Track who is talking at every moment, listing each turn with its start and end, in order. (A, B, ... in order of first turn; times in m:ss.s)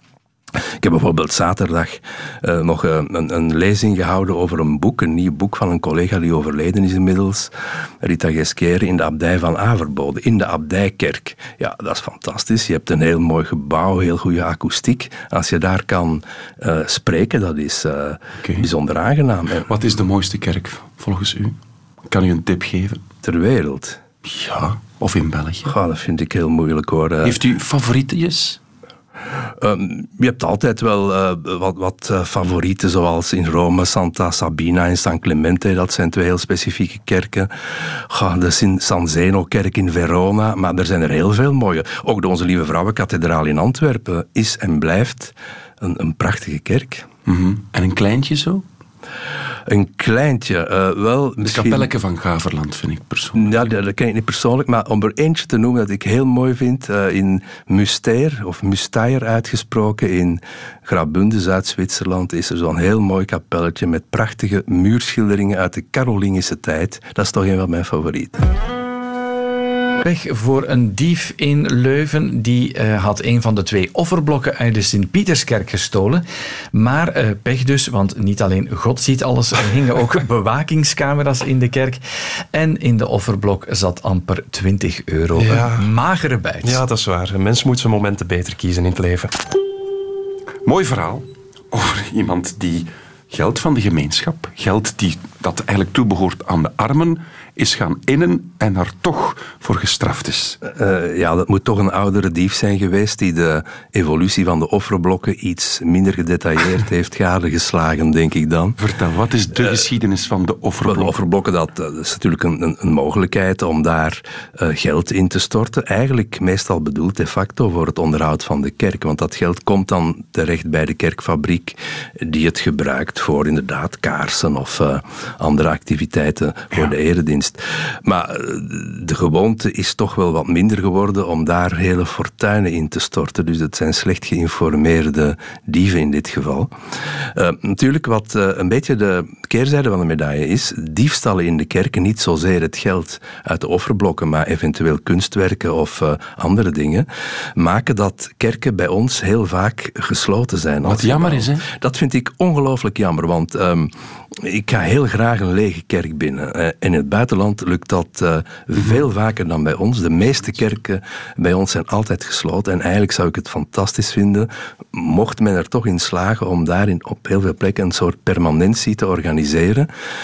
0:00.8-0:07.5 A
0:08.0-0:19.7 A
0:18.4-0:18.7 B
0:19.6-0:23.0 B
0:23.2-0:24.0 A
0:24.2-0:25.7 B
0:25.6-0:27.4 A
0:27.2-0:28.6 B
0:29.6-0:47.1 A
0:47.3-0:48.6 B
0:49.7-0:51.9 A
0:51.4-0:53.5 B
0:53.4-1:08.4 A
1:10.0-1:22.0 C
1:22.5-1:26.8 C
1:25.4-1:25.9 D
1:26.6-1:29.3 D
1:30.6-1:40.6 B
1:40.6-1:48.8 A
1:48.8-1:51.2 B
1:50.8-2:16.7 A
2:17.4-2:49.9 A
2:30.8-2:31.7 B